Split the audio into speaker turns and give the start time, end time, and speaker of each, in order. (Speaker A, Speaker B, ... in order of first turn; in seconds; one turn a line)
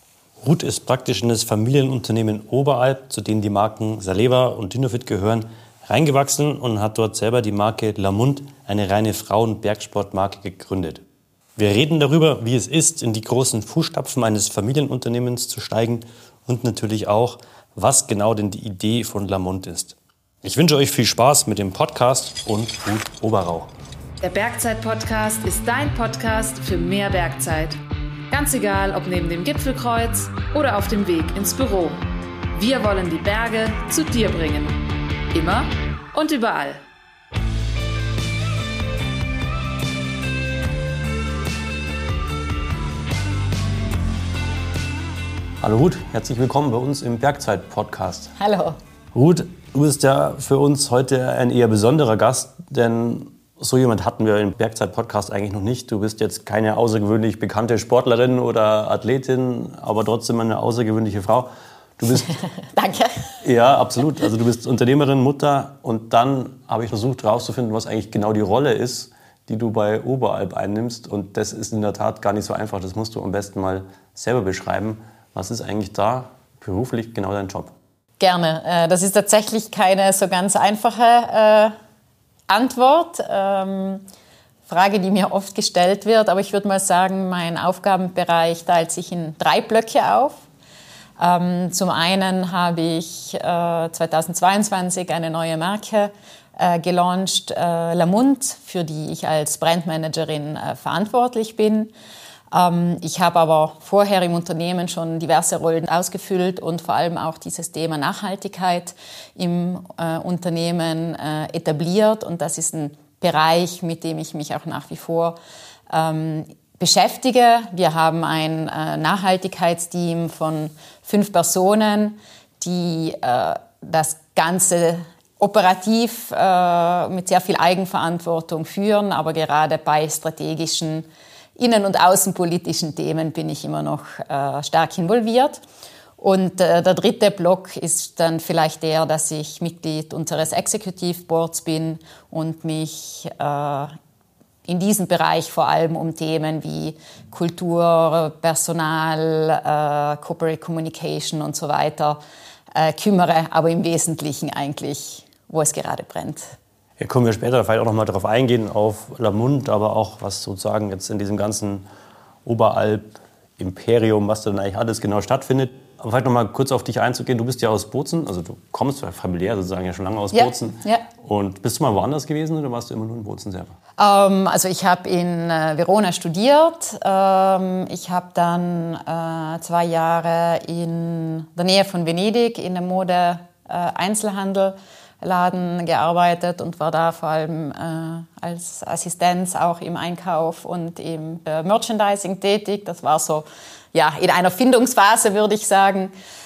Speaker A: 0.4-11.0
Speaker A: 11.6-23.7
Speaker B: 24.2-27.8
Speaker B: 28.3-36.8
Speaker A: 45.6-48.3
Speaker C: 48.4-48.8
Speaker A: 49.1-62.3
Speaker C: 62.6-63.3
Speaker A: 63.4-77.7
Speaker C: 78.2-81.7
Speaker C: 82.5-84.0
Speaker C: 84.7-90.4
Speaker C: 91.2-101.9
Speaker C: 102.5-115.4
Speaker C: 115.9-135.6
Speaker C: 136.2-143.9
Speaker C: 144.7-152.2
Speaker C: 152.7-156.5
Speaker A: 157.0-161.8
Speaker A: 162.4-173.7
Speaker C: 170.3-171.0
Speaker C: 174.0-196.1